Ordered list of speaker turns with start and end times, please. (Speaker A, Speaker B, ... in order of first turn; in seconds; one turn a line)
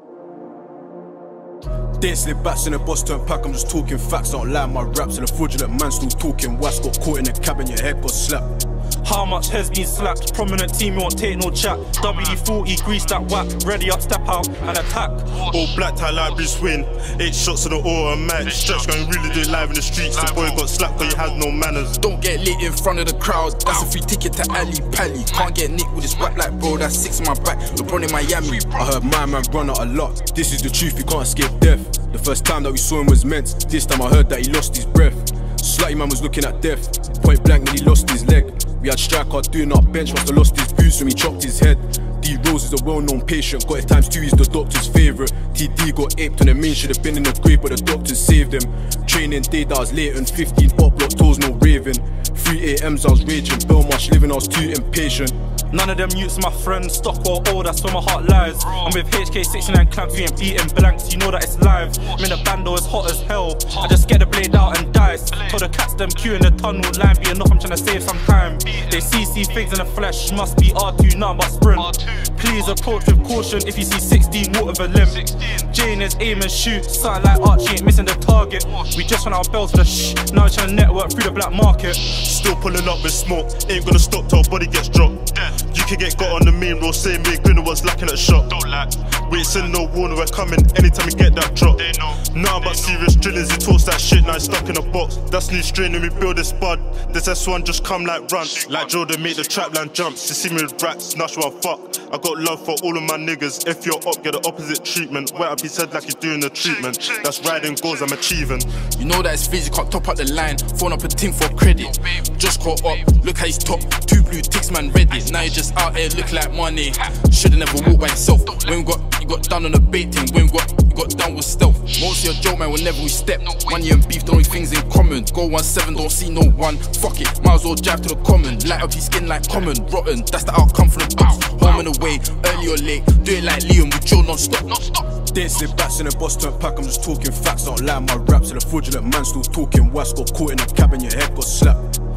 Speaker A: 2.0-8.6
Speaker B: 9.0-15.4
Speaker C: 15.4-22.0
Speaker D: 22.0-28.8
Speaker A: 28.7-55.4
Speaker B: 55.7-82.1
Speaker C: 82.0-108.8
Speaker D: 108.9-135.1
Speaker A: 135.3-141.9